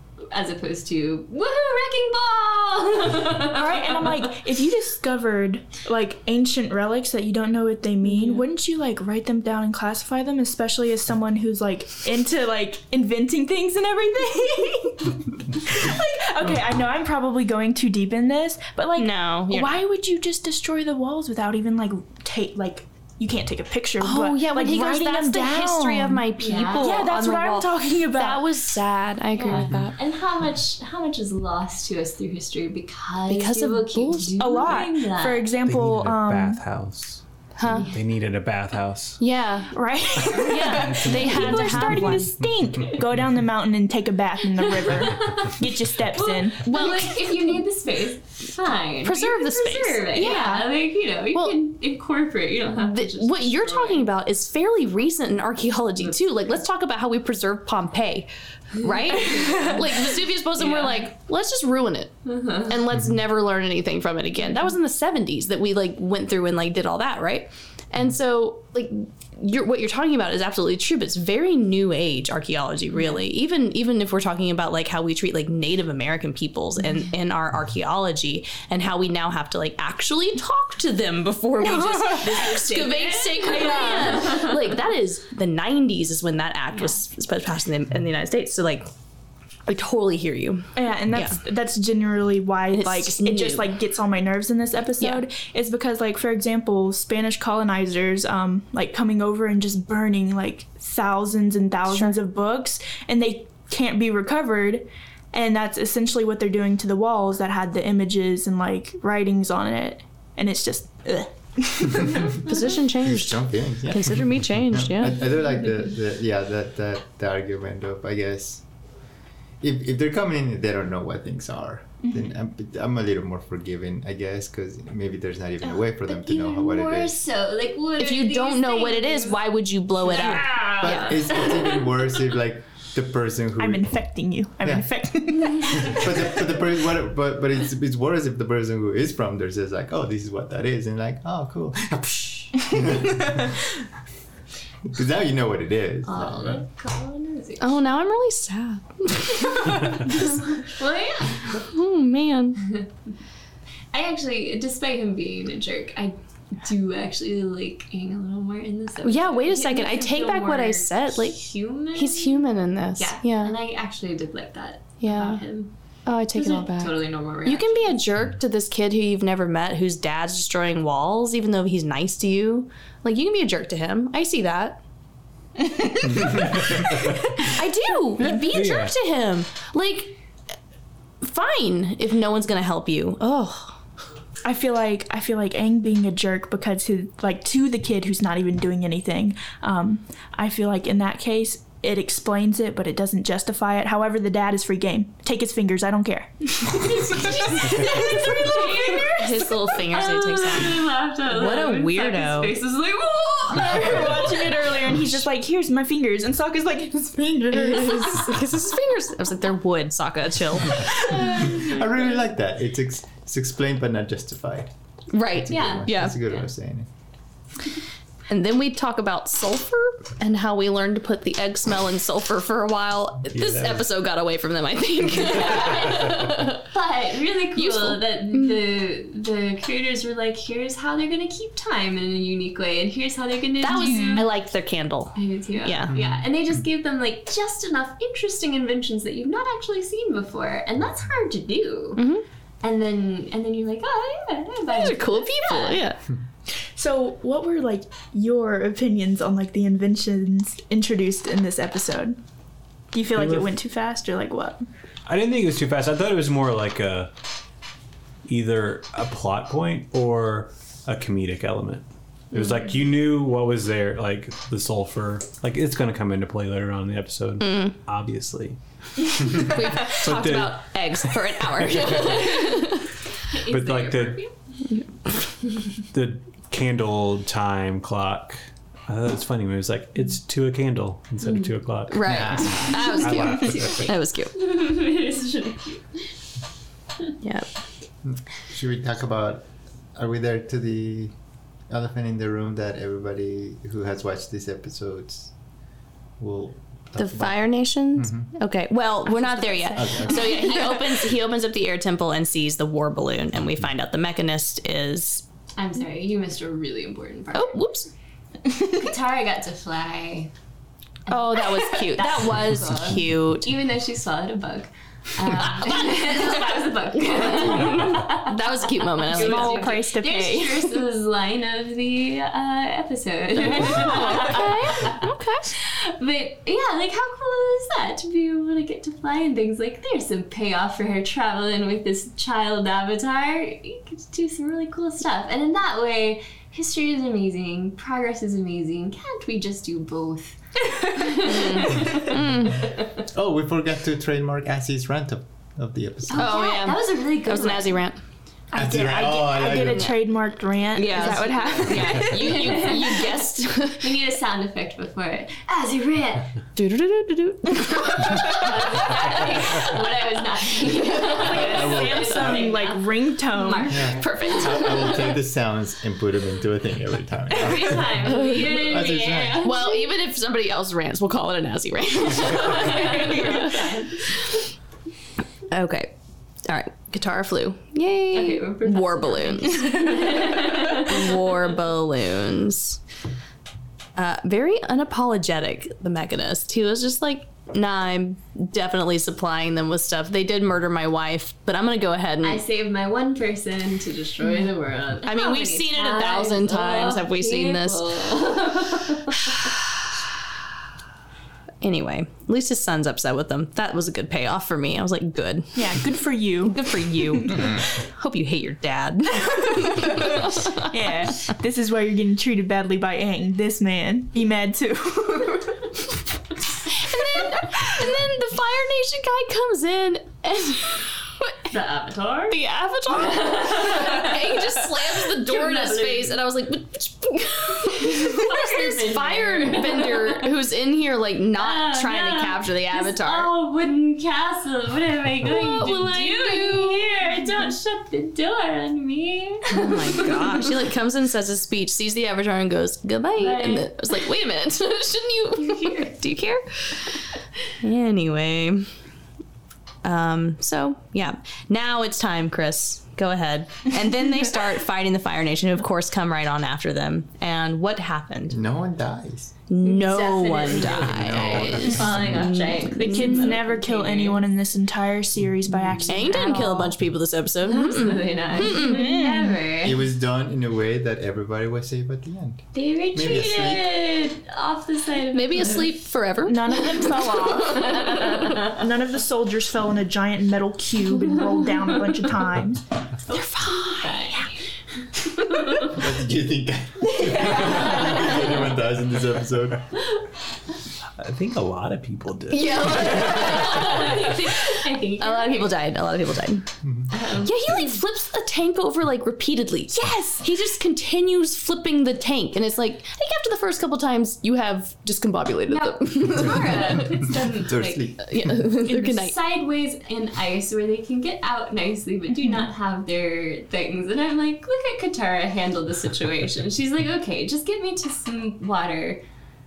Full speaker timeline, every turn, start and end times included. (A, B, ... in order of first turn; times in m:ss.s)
0:00.3-0:04.3 A
0:03.3-0:26.2 B
0:08.0-0:08.4 A
0:19.0-0:19.8 C
0:24.0-0:30.0 C
0:26.4-0:26.9 A
0:26.8-0:28.5 B
0:29.4-0:35.5 A
0:33.3-0:34.4 C
0:34.4-0:36.6 B
0:35.6-0:39.2 D
0:37.6-0:37.9 C
0:37.6-0:38.0 A
0:39.2-0:39.7 C
0:39.7-0:46.7 B
0:40.3-0:42.3 C
0:40.7-0:42.0 D
0:44.6-0:45.6 A
0:46.1-0:54.1 A
0:46.6-0:47.6 C
0:49.0-0:50.5 C
0:50.2-0:50.7 B
0:52.7-1:28.9 C
0:58.8-1:00.0 A
1:00.6-1:01.1 A
1:02.3-1:02.8 A
1:22.1-1:24.6 A
1:29.7-1:31.4 C
1:30.8-1:52.5 B
1:32.7-1:33.7 C
1:35.0-1:35.2 C
1:41.9-1:42.1 C
1:52.4-1:55.3 C
1:53.0-1:58.6 E
1:59.6-2:07.2 E
2:06.1-2:09.4 A
2:08.0-2:11.2 C
2:10.0-2:11.9 A
2:10.2-2:10.5 B
2:10.5-2:13.9 E
2:13.6-2:16.2 B
2:15.6-2:23.6 E
2:24.9-2:26.6 E
2:26.0-2:27.8 A
2:27.6-2:30.5 C
2:30.1-2:31.6 A
2:31.4-2:32.6 C
2:32.6-2:32.9 A
2:33.9-2:45.7 A
2:39.0-2:43.6 C
2:45.0-2:45.4 C
2:46.1-2:54.8 C
2:46.3-2:48.0 A
2:55.6-2:57.4 B
2:56.3-2:57.2 D
2:57.4-3:00.2 C
2:58.4-2:58.9 D
3:01.2-3:03.8 C
3:04.4-3:18.8 B
3:16.6-3:24.7 A
3:19.0-3:22.6 C
3:23.5-3:28.4 B
3:27.5-3:31.1 C
3:31.1-3:31.7 A
3:31.2-3:34.7 E
3:35.1-3:36.2 C
3:35.2-3:36.9 E
3:35.5-3:36.5 A
3:38.3-3:46.6 C
3:43.3-3:43.8 D
3:45.2-3:54.3 A
3:47.6-3:48.6 C
3:53.6-3:56.0 C
3:53.8-3:54.2 B
3:55.2-4:02.1 A
3:55.9-3:56.2 E
4:02.0-4:02.2 C
4:02.6-4:05.8 A
4:04.7-4:06.0 C
4:06.8-4:12.2 B
4:12.9-4:14.6 B
4:13.2-4:13.5 D
4:15.1-4:17.1 D
4:18.3-4:32.3 D
4:27.4-4:27.8 C
4:29.3-4:32.9 C
4:32.1-4:32.7 A
4:33.3-4:34.3 A
4:33.5-4:34.2 D
4:35.9-4:43.9 D
4:41.9-4:44.3 C
4:42.1-4:42.6 E
4:42.6-4:46.1 A
4:47.2-4:47.5 C
4:48.0-4:51.1 E
4:51.7-4:55.3 E
4:56.2-4:58.3 E
4:57.0-5:05.3 C
4:59.3-5:00.8 B
4:59.8-5:00.3 E
5:05.6-5:07.6 A
5:07.3-5:07.9 C
5:08.5-5:10.3 A
5:11.1-5:13.6 C
5:11.1-5:43.0 A
5:15.6-5:16.3 C
5:17.0-5:19.7 C
5:19.1-5:20.8 B
5:23.6-5:25.5 C
5:41.2-5:42.7 C
5:43.0-5:46.4 E
5:46.1-5:47.8 A
5:46.1-5:48.0 C
5:48.5-5:52.6 B
5:48.5-5:50.0 E
5:49.6-5:50.0 C
5:50.7-5:54.0 C
5:51.5-5:56.4 A
5:56.6-5:59.6 C
5:58.1-6:05.1 A
6:00.6-6:01.6 C
6:01.2-6:02.5 E
6:01.3-6:03.9 B
6:03.7-6:09.5 E
6:03.9-6:05.0 C
6:07.3-6:09.9 A
6:08.0-6:14.2 C
6:12.2-6:14.1 A
6:12.9-6:13.6 B
6:15.5-6:15.9 C
6:16.4-6:22.8 C
6:18.1-6:21.2 A
6:24.0-6:32.4 C
6:32.2-6:39.5 A
6:35.0-6:37.9 C
6:41.6-6:45.8 C
6:45.6-6:47.5 B
6:46.4-6:51.2 C
6:50.1-6:55.9 B
6:56.7-7:01.5 C
7:01.5-7:02.4 A
7:02.3-7:13.3 C
7:02.9-7:06.2 A
7:07.7-7:10.4 A
7:11.4-7:20.5 A
7:15.2-7:17.0 C
7:19.5-7:27.0 C
7:23.2-7:23.8 A
7:25.4-7:25.9 A
7:27.6-7:28.7 C
7:29.8-7:38.4 C
7:38.3-7:39.4 E
7:39.5-7:43.1 C
7:39.6-7:44.2 A
7:40.5-7:42.3 E
7:42.7-7:46.8 B
7:45.9-7:48.9 C
7:47.4-7:49.8 A
7:48.4-7:49.4 B
7:49.6-7:53.7 E
7:52.5-7:55.7 A
7:55.1-7:58.4 C
7:56.2-8:02.6 B
7:57.7-7:58.4 A
8:03.1-8:04.5 A
8:03.1-8:04.3 C
8:05.0-8:05.8 A
8:05.6-8:09.8 E
8:07.2-8:08.0 A
8:11.0-8:13.7 D
8:12.3-8:16.5 C
8:12.7-8:15.5 A
8:16.9-8:17.4 A
8:17.2-8:27.0 C
8:19.7-8:20.2 B
8:25.5-8:28.0 A
8:27.4-8:28.3 E
8:28.0-8:29.2 C
8:28.6-8:39.0 A